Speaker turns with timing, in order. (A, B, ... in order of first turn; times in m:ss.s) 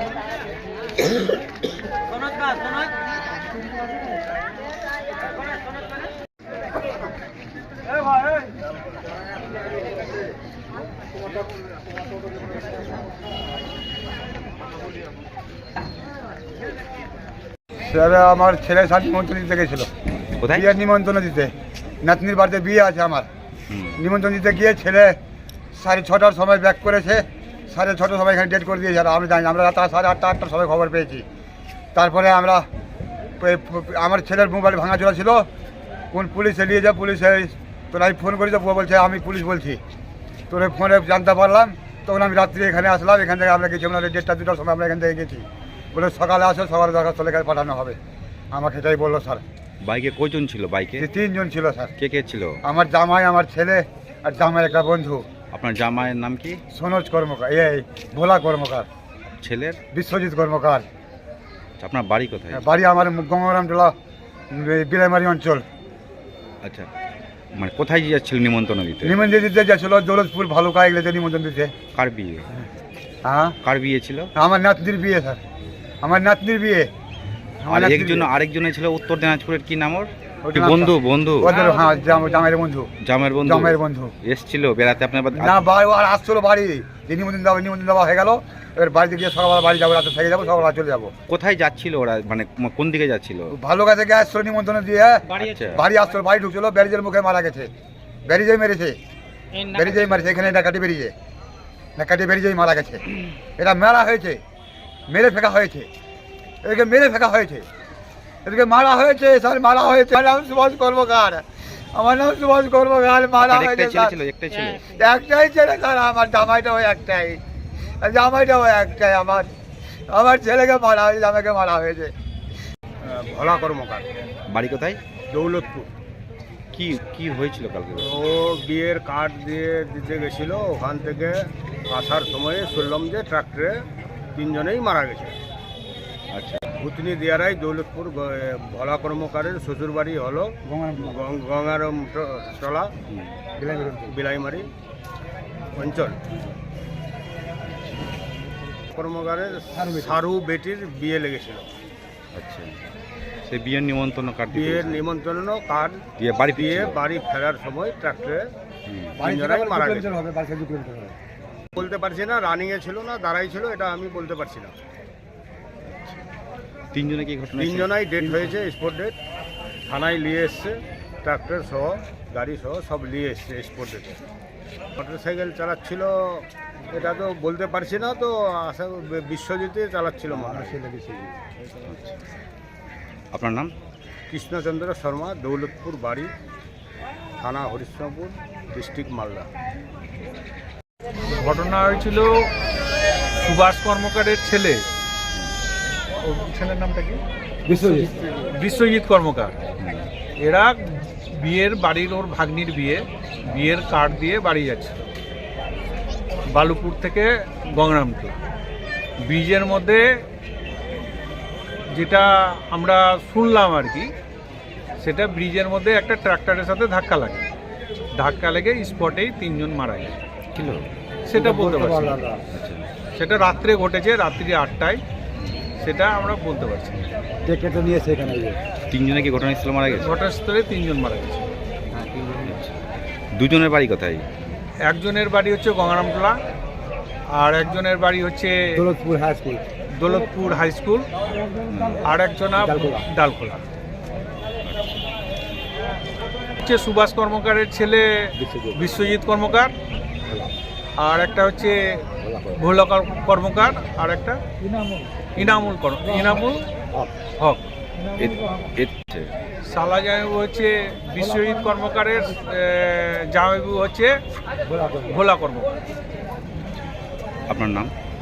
0:17.9-0:19.9 A
0:20.2-0:20.7 B
0:20.5-0:23.3 A
0:23.7-0:24.0 B
0:24.0-0:25.2 A
0:25.7-0:31.2 A
0:31.9-0:32.7 A
0:33.4-0:35.5 A
0:36.1-0:39.8 A
0:40.5-0:48.0 A
0:48.5-0:49.4 A
0:49.8-0:51.1 B
0:51.0-0:51.9 A
0:52.0-0:52.6 B
0:52.6-0:55.2 A
0:55.5-0:56.6 B
0:56.7-0:58.9 A
0:59.2-0:59.8 B
0:59.9-1:00.8 A
1:01.8-1:02.6 B
1:02.5-1:03.9 A
1:04.5-1:05.6 A
1:06.6-1:06.9 B
1:07.6-1:09.2 B
1:09.0-1:11.7 A
1:11.9-1:12.4 B
1:13.2-1:13.5 A
1:13.6-1:14.3 B
1:14.4-1:15.4 A
1:16.0-1:16.9 A
1:17.6-1:18.3 A
1:17.7-1:21.6 B
1:20.4-1:22.9 A
1:23.0-1:25.7 B
1:23.4-1:24.1 A
1:25.3-1:31.1 A
1:31.3-1:33.5 B
1:33.5-1:37.7 A
1:35.3-1:35.9 B
1:38.3-1:39.0 A
1:39.6-1:41.1 A
1:42.0-1:43.0 A
1:43.6-1:44.4 A
1:45.1-1:45.9 A
1:46.6-1:47.6 A
1:48.4-1:54.1 A
1:53.4-1:55.0 B
1:54.8-1:57.4 A
1:58.0-1:59.5 A
2:00.1-2:02.1 A
2:03.0-2:04.1 C
2:04.5-2:05.0 B
2:05.3-2:05.9 C
2:06.7-2:08.2 B
2:08.0-2:15.4 C
2:16.3-2:16.6 B
2:16.8-2:22.9 C
2:20.6-2:21.2 A
2:23.1-2:23.3 B
2:23.6-2:24.2 A
2:24.0-2:24.7 C
2:25.7-2:26.2 C
2:27.6-2:28.1 B
2:28.9-2:31.7 C
2:29.7-2:30.2 A
2:32.3-2:32.7 B
2:33.4-2:35.1 B
2:34.5-2:38.5 C
2:36.2-2:37.0 B
2:38.9-2:39.2 B
2:39.2-2:41.2 A
2:39.2-2:40.1 C
2:41.7-2:44.8 C
2:45.9-2:46.2 B
2:46.9-2:48.0 B
2:47.5-2:49.1 C
2:48.2-2:48.5 A
2:49.9-2:54.2 C
2:55.0-3:00.8 C
3:00.3-3:01.3 A
3:01.8-3:02.2 B
3:03.3-3:03.7 B
3:04.3-3:06.3 C
3:07.4-3:09.5 C
3:11.3-3:12.5 D
3:13.4-3:14.8 D
3:16.2-3:17.2 D
3:17.6-3:18.1 A
3:17.9-3:19.6 D
3:19.8-3:20.1 B
3:20.4-3:25.0 D
3:26.5-3:28.4 D
3:29.2-3:30.2 D
3:31.9-3:34.1 D
3:35.0-3:37.5 D
3:38.2-3:40.2 D
3:40.5-3:40.9 B
3:41.2-3:42.2 D
3:41.3-3:42.4 A
3:42.5-3:42.9 B
3:43.2-3:45.0 D
3:45.4-3:45.7 B
3:45.8-3:47.1 D
3:47.4-3:48.6 A
3:48.9-3:50.1 B
3:50.0-3:51.5 D
3:51.9-3:52.5 A
3:52.4-3:54.6 B
3:54.9-3:56.4 D
3:57.3-3:58.8 D
3:58.7-3:59.6 A
4:00.0-4:01.1 D
4:01.7-4:02.1 B
4:02.0-4:03.6 D
4:02.6-4:03.1 A
4:04.6-4:05.0 B
4:06.6-4:09.7 D
4:08.4-4:08.8 A
4:11.0-4:14.4 D
4:12.3-4:12.5 A
4:15.3-4:16.7 D
4:17.4-4:17.6 D
4:18.2-4:19.3 B
4:19.7-4:24.2 D
4:24.7-4:25.2 A
4:25.1-4:25.8 D
4:27.5-4:27.9 B